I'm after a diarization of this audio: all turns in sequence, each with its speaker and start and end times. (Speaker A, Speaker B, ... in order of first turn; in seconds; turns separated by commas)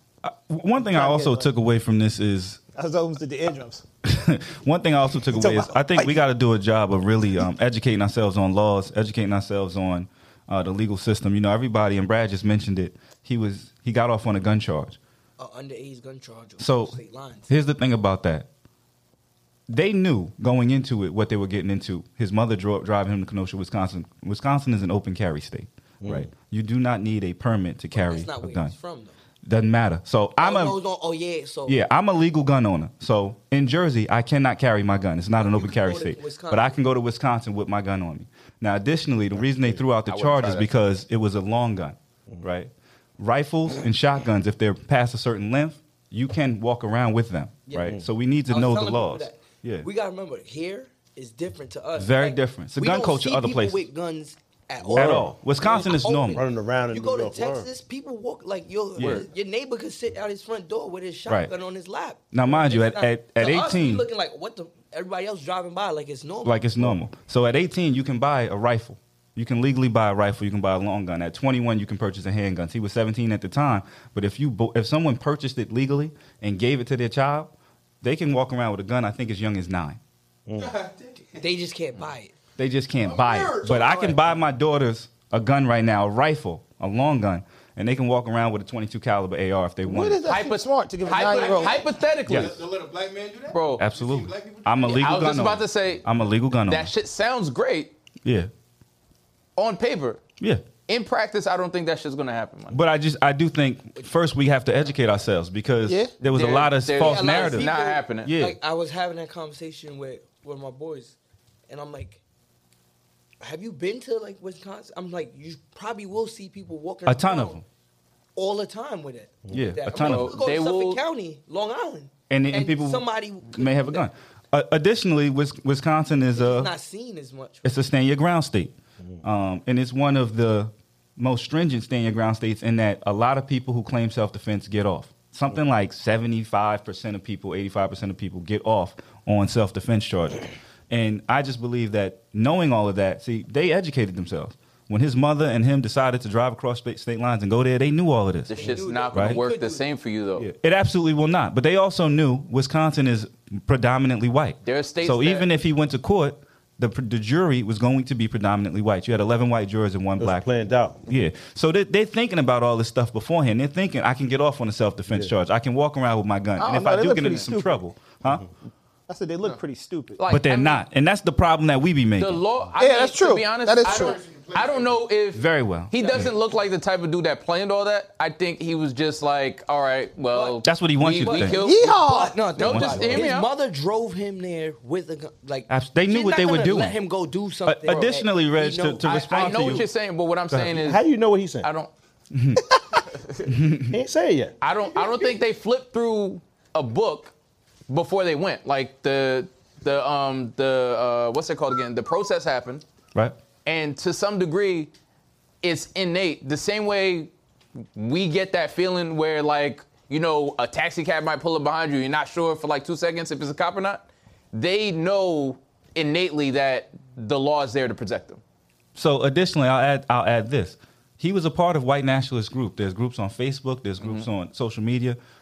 Speaker A: 0.2-2.6, Speaker B: 0.8-1.5, Speaker B: 2.8-3.8, Speaker A: 4.0-15.0, Speaker B: 5.3-6.2, Speaker C: 15.4-17.5, Speaker A: 16.6-17.0, Speaker A: 17.5-18.5, Speaker A: 19.7-28.7, Speaker D: 26.0-26.3, Speaker C: 27.9-29.2, Speaker A: 29.4-30.8, Speaker C: 30.4-31.9, Speaker A: 31.7-49.9, Speaker C: 35.4-36.8, Speaker D: 39.4-39.8, Speaker E: 40.1-40.7, Speaker C: 47.7-66.7, Speaker A: 52.0-53.9, Speaker D: 54.8-55.3, Speaker A: 54.9-56.5, Speaker D: 56.4-57.7, Speaker A: 59.0-59.2, Speaker E: 59.0-59.3, Speaker A: 61.3-61.5, Speaker A: 62.3-64.1, Speaker A: 66.4-80.0, Speaker D: 80.5-80.7, Speaker F: 80.5-81.5, Speaker C: 81.4-82.3, Speaker A: 82.6-90.2, Speaker F: 83.0-84.2, Speaker B: 89.9-91.8, Speaker E: 90.3-92.6, Speaker F: 91.1-95.1, Speaker A: 92.3-92.5, Speaker E: 93.5-93.8, Speaker A: 93.8-96.9, Speaker E: 94.9-96.0, Speaker E: 96.6-97.9, Speaker A: 98.2-98.5, Speaker E: 99.6-100.2, Speaker E: 100.9-102.8, Speaker A: 102.7-108.6, Speaker B: 105.9-106.1, Speaker E: 106.3-108.3, Speaker C: 107.0-111.2, Speaker C: 111.7-112.2, Speaker C: 113.4-117.6, Speaker A: 117.1-117.6, Speaker C: 118.3-124.1, Speaker A: 119.5-120.5, Speaker E: 120.0-121.0, Speaker A: 122.3-126.7, Speaker C: 126.3-127.7, Speaker A: 127.7-149.4, Speaker E: 148.5-150.5, Speaker C: 148.5-149.9, Speaker A: 150.4-160.5, Speaker E: 154.6-155.5, Speaker D: 160.2-161.0, Speaker A: 161.1-168.4, Speaker B: 166.6-167.8, Speaker B: 169.1-170.2, Speaker E: 170.2-170.8, Speaker A: 170.3-172.4, Speaker E: 172.2-181.9, Speaker B: 172.8-174.2, Speaker F: 173.8-175.0, Speaker A: 175.3-176.2, Speaker C: 176.0-176.2, Speaker C: 180.3-180.6, Speaker A: 180.6-181.6, Speaker C: 181.2-189.8, Speaker B: 181.6-182.4, Speaker E: 182.6-183.5, Speaker A: 182.6-183.3, Speaker A: 185.7-187.0, Speaker A: 187.7-189.9, Speaker E: 187.9-188.1, Speaker E: 189.0-191.0, Speaker D: 190.7-191.7, Speaker E: 191.6-191.9, Speaker A: 192.3-192.8, Speaker E: 193.2-193.4, Speaker A: 193.5-194.0, Speaker D: 193.9-194.6, Speaker E: 194.6-197.3, Speaker E: 197.9-202.8, Speaker E: 203.7-204.9, Speaker E: 205.6-207.3, Speaker E: 207.9-218.4, Speaker A: 218.9-225.2, Speaker E: 224.0-224.3